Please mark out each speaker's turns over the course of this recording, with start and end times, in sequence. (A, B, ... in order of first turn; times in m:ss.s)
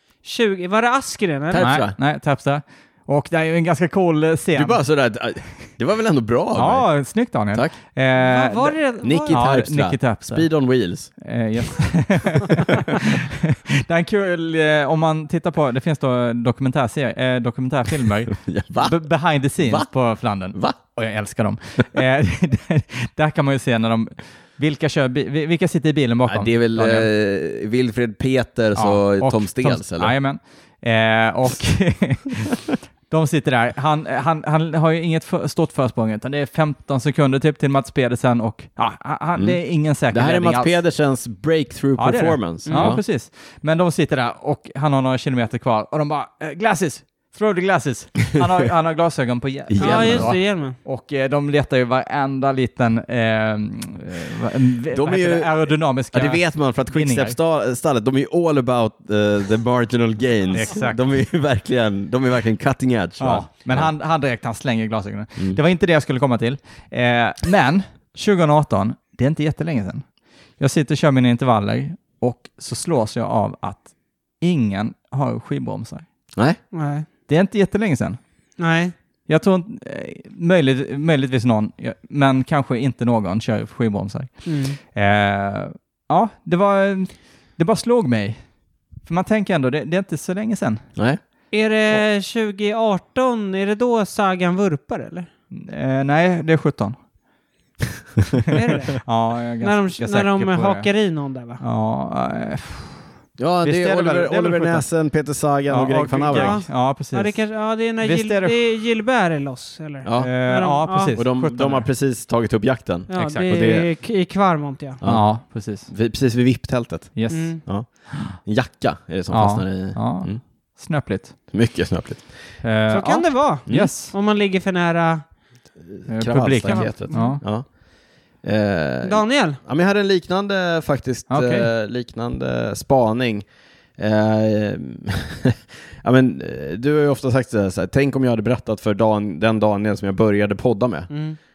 0:00.2-0:01.7 A
0:01.5-0:02.0 B
0:01.6-0:04.8 C
0:04.5-0:06.9 B
0:06.6-0:10.5 C
0:08.2-0:09.4 A
0:09.0-0:11.1 B
0:11.2-0:27.1 C
0:12.6-0:13.0 B
0:18.4-0:19.0 B
0:19.6-0:19.9 B
0:26.3-0:30.2 B
0:28.8-0:40.8 C
0:39.4-0:43.0 B
0:42.0-0:57.4 C
0:42.7-0:42.9 A
0:49.7-0:50.3 B
0:49.8-0:50.8 A
0:54.9-1:03.9 B
1:00.5-1:01.0 C
1:03.2-1:10.1 C
1:10.6-1:13.9 C
1:14.4-1:16.1 C
1:16.7-1:17.1 A
1:17.3-1:18.2 C
1:18.6-1:18.9 A
1:19.3-1:28.4 C
1:24.4-1:24.8 A
1:29.0-1:30.9 C
1:31.5-1:35.3 A
1:35.5-1:37.0 C
1:38.5-1:39.1 A
1:38.5-1:40.9 C
1:39.6-1:41.6 A
1:41.6-1:43.1 C
1:43.4-1:46.6 B
1:43.6-1:44.9 C
1:45.7-1:47.4 C
1:46.3-1:51.2 A
1:48.0-1:48.7 C
1:50.0-1:50.3 B
1:50.2-1:51.9 C
1:51.2-1:53.9 B
1:53.1-1:55.0 A
1:53.1-1:53.5 C
1:55.0-2:00.4 B
1:55.0-1:55.9 C
1:57.2-1:58.4 C
1:57.3-1:57.6 A
1:59.3-2:01.4 C
2:01.5-2:02.3 B
2:02.6-2:04.1 C
2:02.9-2:05.2 A
2:03.7-2:03.9 B
2:05.8-2:07.8 B
2:06.1-2:07.4 C
2:06.7-2:07.4 A
2:08.4-2:21.1 B
2:09.0-2:09.6 A
2:11.3-2:11.7 C
2:21.1-2:21.4 A